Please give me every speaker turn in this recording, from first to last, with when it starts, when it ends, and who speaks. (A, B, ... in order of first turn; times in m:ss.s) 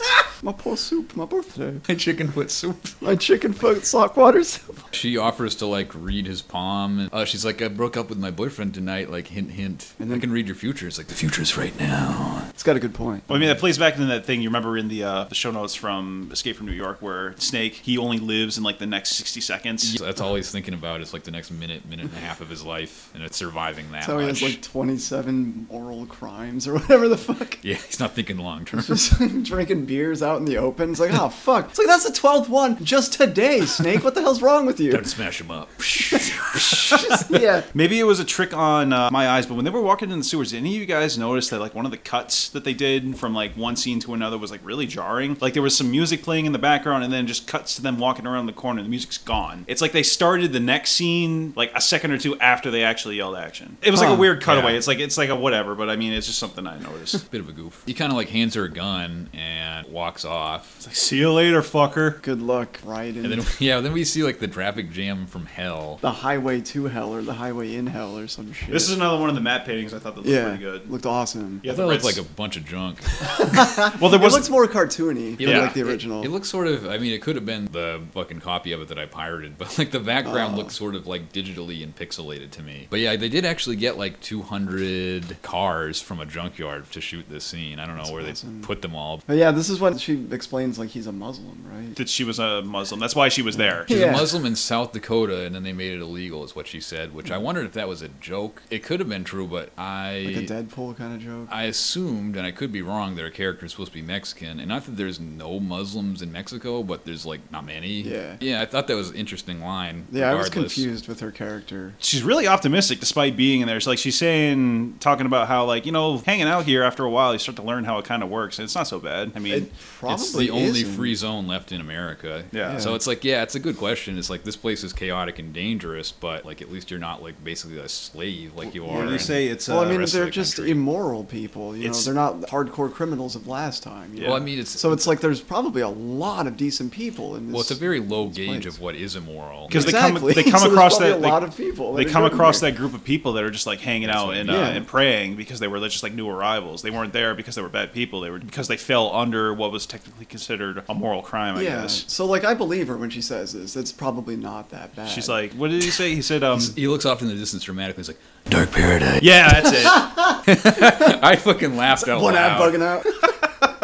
0:00.4-0:01.8 A
0:01.8-0:03.0 B
0:03.0-0:04.9 A
0:04.9-0:12.5 B
0:10.0-0:10.3 A
0:12.6-0:13.3 A
0:13.3-0:20.0 C
0:19.8-0:24.6 B
0:24.0-0:27.6 A
0:27.6-0:29.1 B
0:28.7-0:35.1 A
0:34.9-0:37.2 B
0:36.0-0:37.7 A
0:37.7-0:57.2 C
0:54.0-0:54.3 A
0:54.4-0:54.8 B
0:57.3-1:00.8 B
1:00.8-1:02.2 C
1:02.2-1:03.4 A
1:03.2-1:06.0 B
1:06.0-1:08.9 A
1:08.7-1:10.9 C
1:10.2-1:11.6 A
1:11.6-1:12.2 C
1:11.7-1:13.1 B
1:13.3-1:16.3 A
1:13.7-1:14.5 C
1:15.4-1:29.2 B
1:15.4-1:15.8 C
1:20.2-1:20.7 A
1:28.0-1:28.7 A
1:29.3-1:32.0 A
1:32.0-1:34.0 C
1:33.8-1:34.3 A
1:33.9-1:40.5 B
1:40.2-1:41.5 A
1:41.5-1:50.9 B
1:48.0-1:48.4 A
1:50.1-1:52.0 A
1:52.0-1:59.7 C
1:59.5-2:01.1 A
2:00.1-2:10.8 B
2:02.5-2:02.8 C
2:02.6-2:03.0 A
2:08.8-2:18.8 A
2:08.9-2:10.0 C
2:11.8-2:12.1 C
2:14.2-2:14.4 C
2:14.2-2:15.0 B
2:17.5-2:20.0 B
2:19.7-2:32.0 C
2:19.7-2:22.7 A
2:24.0-2:24.7 B
2:24.4-2:24.8 A
2:31.6-2:35.4 A
2:35.1-2:36.8 C
2:36.5-2:42.9 B
2:39.2-2:40.1 C
2:40.1-2:41.2 A
2:41.9-2:43.3 A